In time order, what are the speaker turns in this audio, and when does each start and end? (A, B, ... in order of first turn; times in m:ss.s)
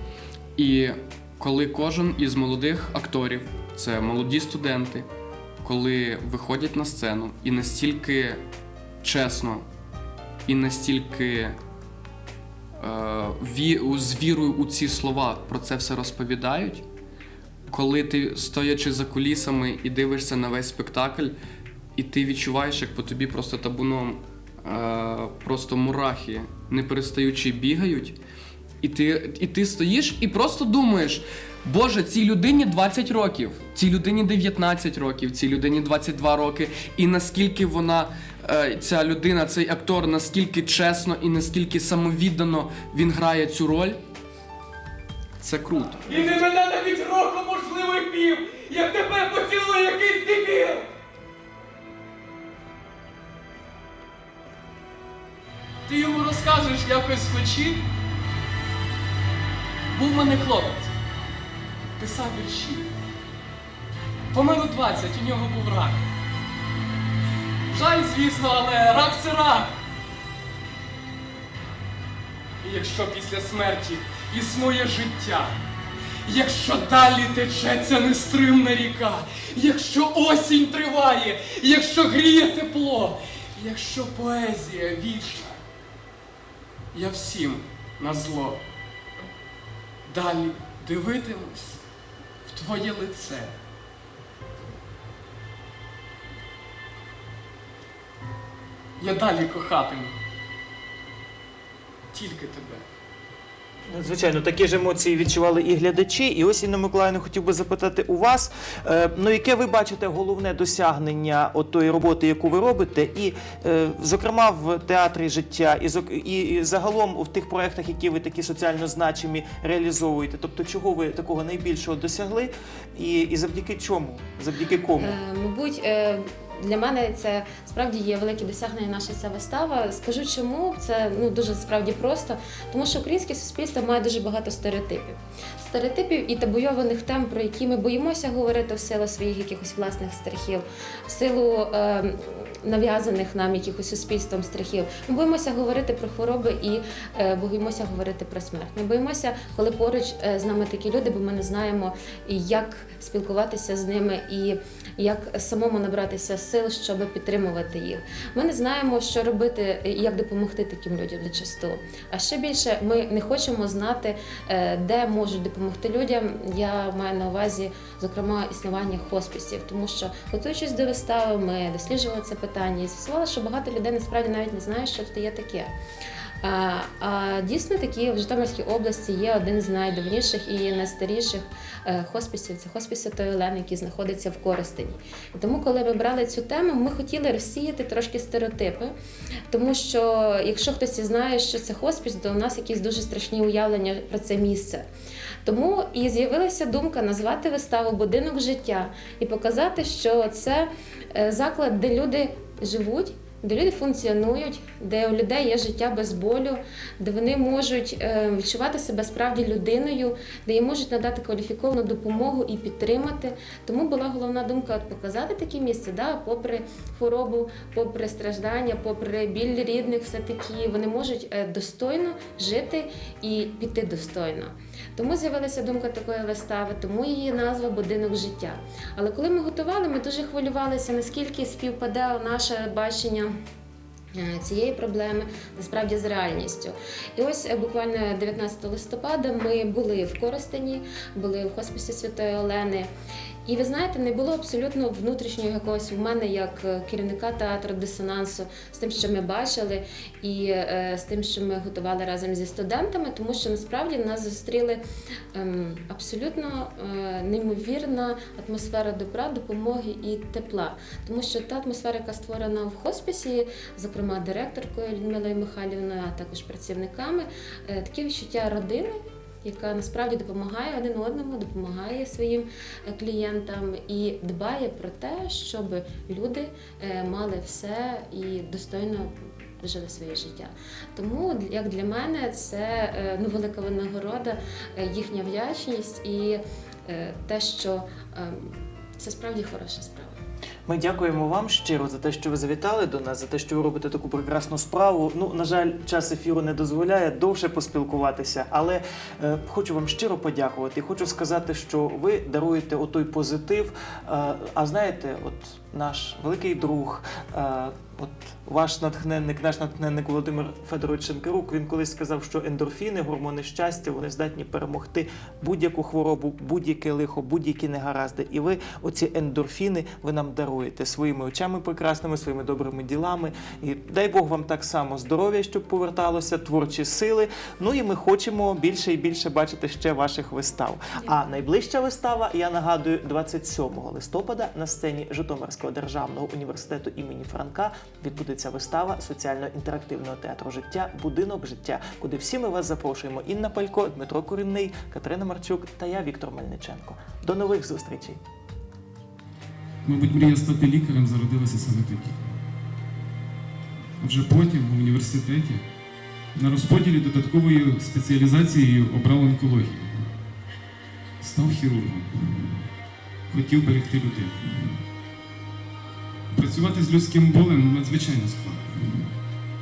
0:00.6-0:05.1 A
0:05.6-0:08.4 A
0:09.0-0:09.6 A
0:10.5-0:11.6 A
0:12.8-0:16.8 A
0:17.7-0:21.3 A
0:22.0-0:28.2 A
0:28.8-0:44.0 A
0:45.4-0:46.5 A
0:46.0-0:50.8 B
0:48.7-0:50.0 A
0:55.9-0:57.8 B
0:55.9-0:57.7 A
1:00.0-1:00.7 A
1:00.0-1:00.9 B
1:02.0-1:02.7 A
1:02.0-1:02.9 B
1:04.3-1:06.0 B
1:05.3-1:05.8 A
1:07.7-1:09.6 A
1:07.9-1:09.7 B
1:12.6-1:15.5 B
1:12.7-1:13.5 A
1:14.3-1:15.1 A
1:16.3-1:25.5 B
1:16.3-1:23.0 A
1:23.6-1:24.1 A
1:24.7-1:25.2 A
1:26.9-1:28.2 A
1:27.0-1:28.6 B
1:30.1-1:31.6 A
1:30.1-1:31.7 B
1:32.5-1:33.0 A
1:32.6-1:33.5 B
1:39.0-1:40.1 B
1:42.1-1:42.8 B
1:43.9-2:05.2 C
2:05.0-2:55.7 D
2:56.4-3:08.9 D
3:09.5-3:14.8 D
3:15.4-3:53.3 D
3:54.1-4:02.9 D
4:03.5-4:14.8 D
4:15.3-4:50.2 D
4:50.7-5:48.2 C
5:49.8-5:52.2 E
5:54.0-5:55.6 E
5:56.4-5:59.9 E
6:01.2-6:02.6 E
6:03.3-6:04.7 E
6:06.3-6:09.1 E